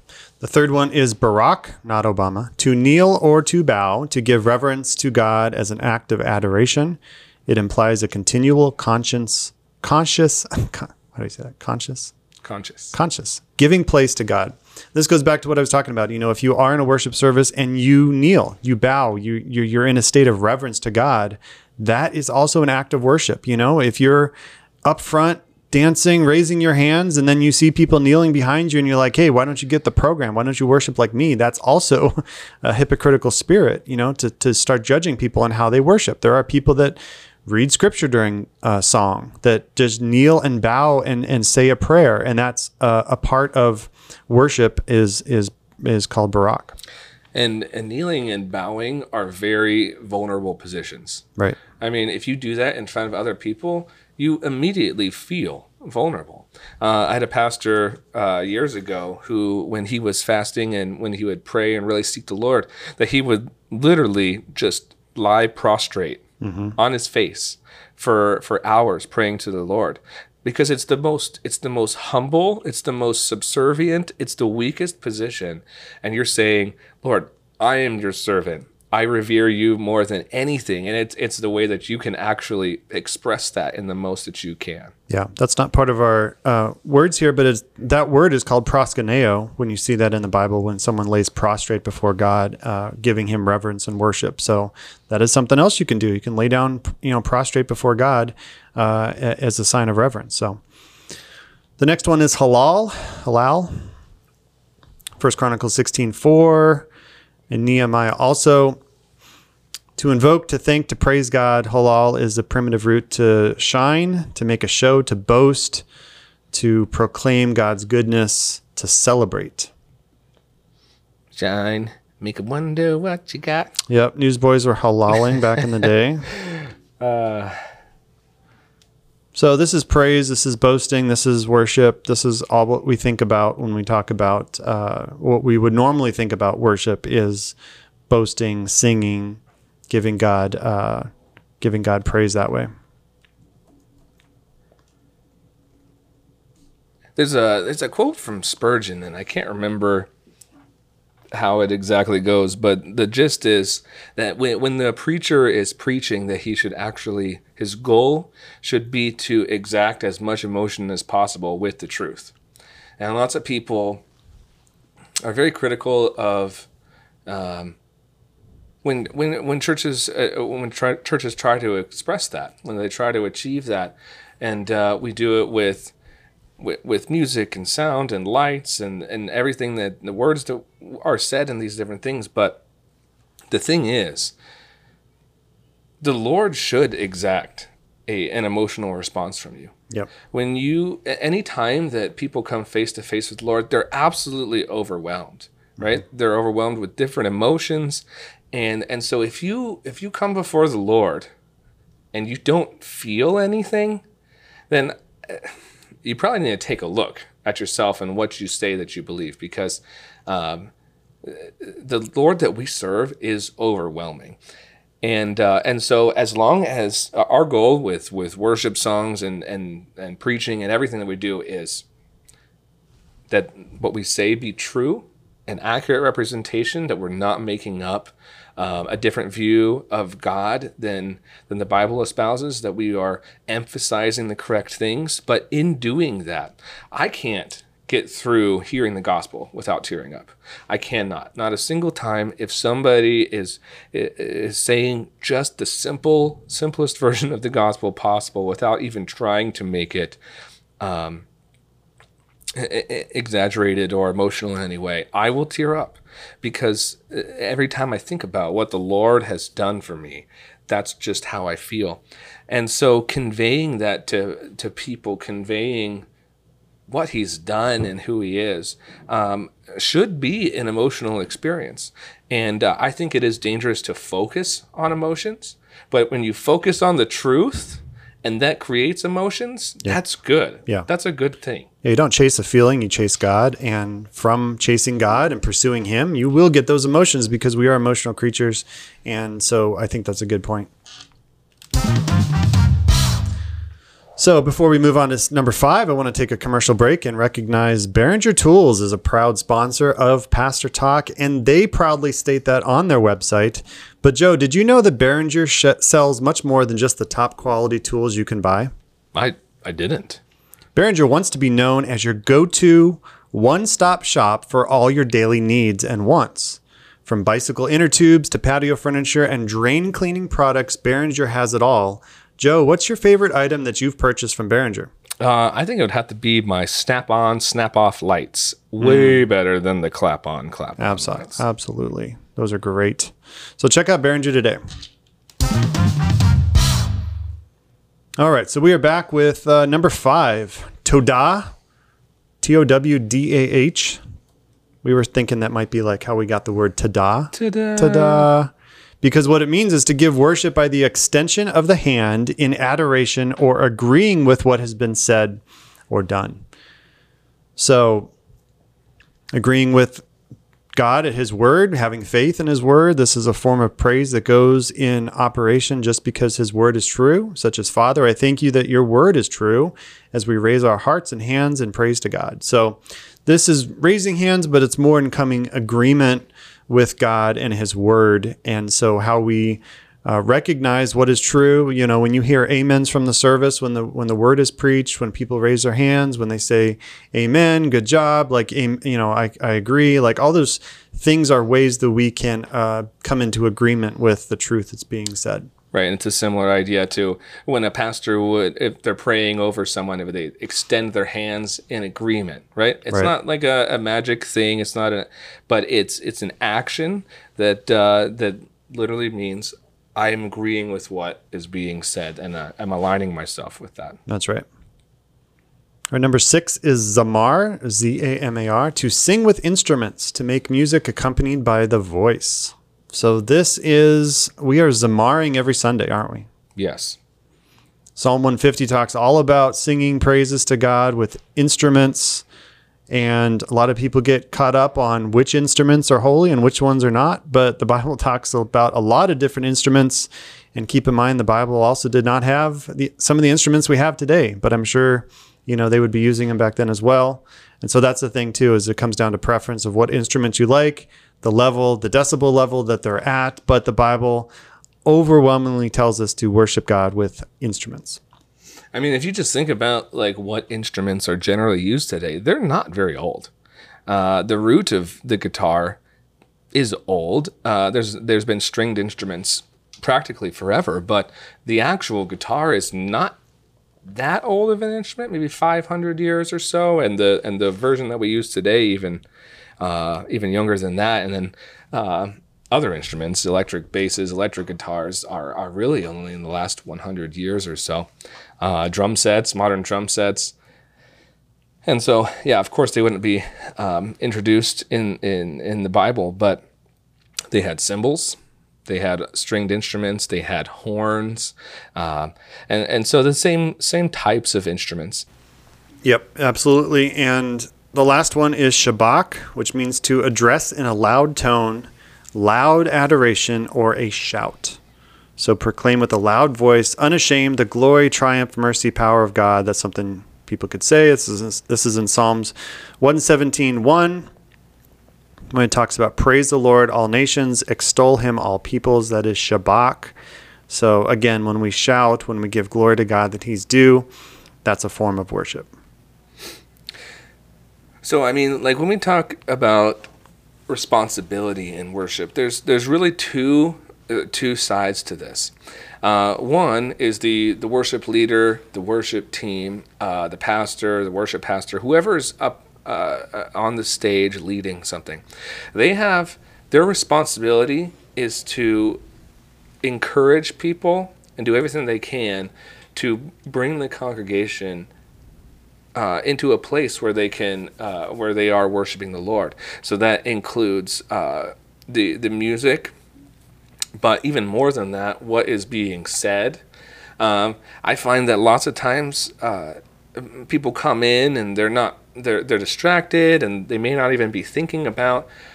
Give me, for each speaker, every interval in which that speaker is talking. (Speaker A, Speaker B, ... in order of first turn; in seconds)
Speaker A: 0.4-12.1, 12.9-24.3, 24.8-46.7, 66.4-66.8, 85.1-100.6, 101.8-103.7, 105.2-106.9, 107.5-108.8, 110.0-115.8, 116.5-119.7, 123.9-126.2, 129.3-137.5, 138.1-141.1, 141.6-142.7, 281.8-290.7, 294.2-308.7, 310.7-324.9, 328.8-329.2, 330.8-334.6, 338.2-341.5, 342.4-344.0, 344.8-348.5, 349.0-356.4, 357.6-358.1, 359.3-360.1, 360.7-395.5, 414.1-414.4, 415.9-426.3, 427.9-432.2, 432.9-454.3, 454.8-458.0, 505.8-514.6, 515.2-524.1, 525.3-529.9, 530.5-533.9, 534.4-535.5
Speaker B: 12.4-12.9, 47.3-51.2, 51.8-66.2, 66.8-84.9, 121.3-123.7, 127.0-127.6, 147.2-150.1, 151.3-162.3, 163.0-164.0, 165.2-166.7, 167.3-167.8, 168.8-175.9, 176.6-182.6, 183.5-184.3, 186.0-189.7, 190.3-201.3, 202.1-204.0, 204.7-210.7, 211.2-214.4, 215.0-221.8, 223.3-250.2, 250.8-251.2, 252.5-266.1, 266.9-281.7, 309.1-310.2, 325.2-331.4, 347.3-348.3, 395.7-414.0, 426.6-427.0, 458.7-463.3, 463.9-465.8, 466.5-473.2, 473.9-479.0, 479.6-487.9, 488.4-490.3, 491.6-496.4, 497.3-505.1, 537.8-539.9, 540.5-545.3, 545.8-555.0, 555.5-558.8, 559.6-564.7, 565.7-572.7, 573.8-576.4, 577.0-585.1